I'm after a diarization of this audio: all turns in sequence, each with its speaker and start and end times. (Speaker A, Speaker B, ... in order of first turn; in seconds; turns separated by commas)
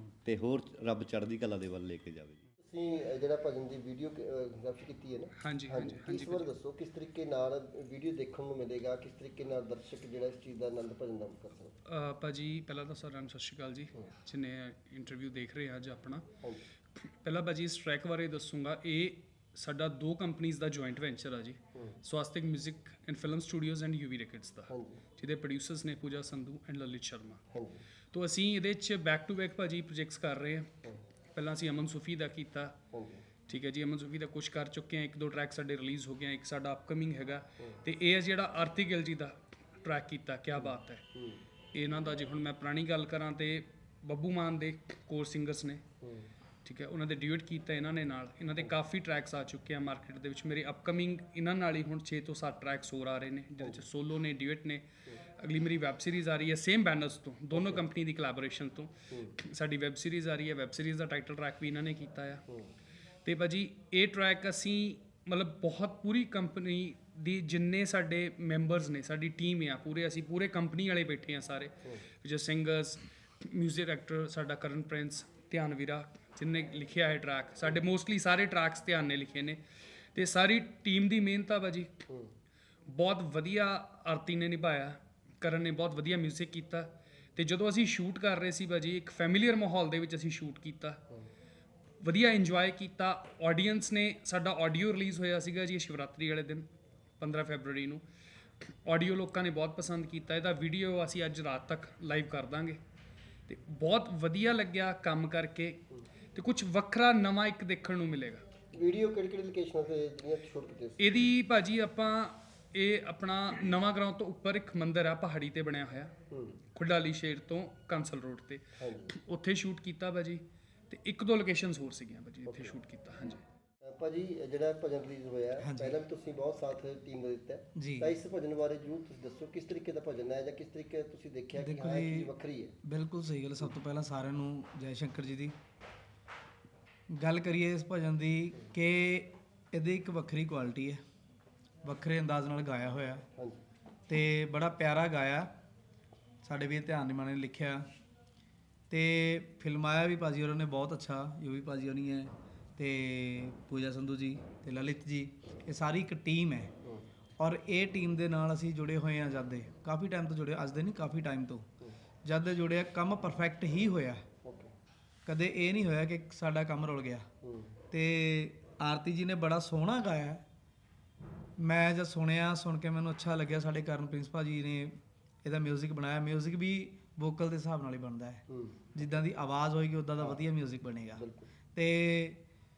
Speaker A: 0.2-2.5, Speaker B: 2.6-11.7, Speaker C: 5.4-6.5, Speaker C: 11.9-16.3, Speaker C: 17.0-27.4, Speaker B: 24.7-25.0, Speaker B: 27.5-27.8, Speaker C: 28.1-30.7, Speaker C: 31.4-32.8, Speaker B: 32.9-33.3, Speaker C: 33.5-41.0, Speaker B: 40.6-41.4, Speaker C: 41.7-45.8, Speaker B: 46.0-46.3, Speaker C: 46.6-54.8, Speaker B: 53.6-53.9, Speaker C: 55.4-62.5, Speaker B: 57.5-57.8, Speaker B: 59.1-59.4, Speaker C: 63.2-79.6, Speaker C: 80.2-82.0, Speaker C: 82.9-91.0, Speaker C: 92.0-96.7, Speaker C: 97.2-98.0, Speaker C: 98.6-102.8, Speaker C: 103.5-105.8, Speaker C: 106.3-108.5, Speaker B: 108.7-111.2, Speaker C: 111.0-116.1, Speaker B: 116.3-116.6, Speaker C: 116.8-123.4, Speaker B: 118.8-119.1, Speaker B: 123.8-132.8, Speaker D: 125.6-126.0, Speaker D: 127.8-128.2, Speaker D: 131.6-132.3, Speaker D: 132.8-135.5, Speaker D: 137.1-141.0, Speaker D: 141.8-143.3, Speaker D: 144.1-145.5, Speaker D: 146.4-147.9, Speaker D: 148.9-156.7, Speaker D: 157.4-161.7, Speaker D: 162.2-164.2, Speaker B: 164.4-164.7, Speaker D: 165.3-167.3, Speaker B: 167.4-167.8, Speaker D: 167.9-170.4, Speaker D: 171.6-178.4, Speaker B: 178.5-178.9, Speaker D: 178.9-182.4, Speaker B: 180.2-180.5, Speaker B: 181.2-181.5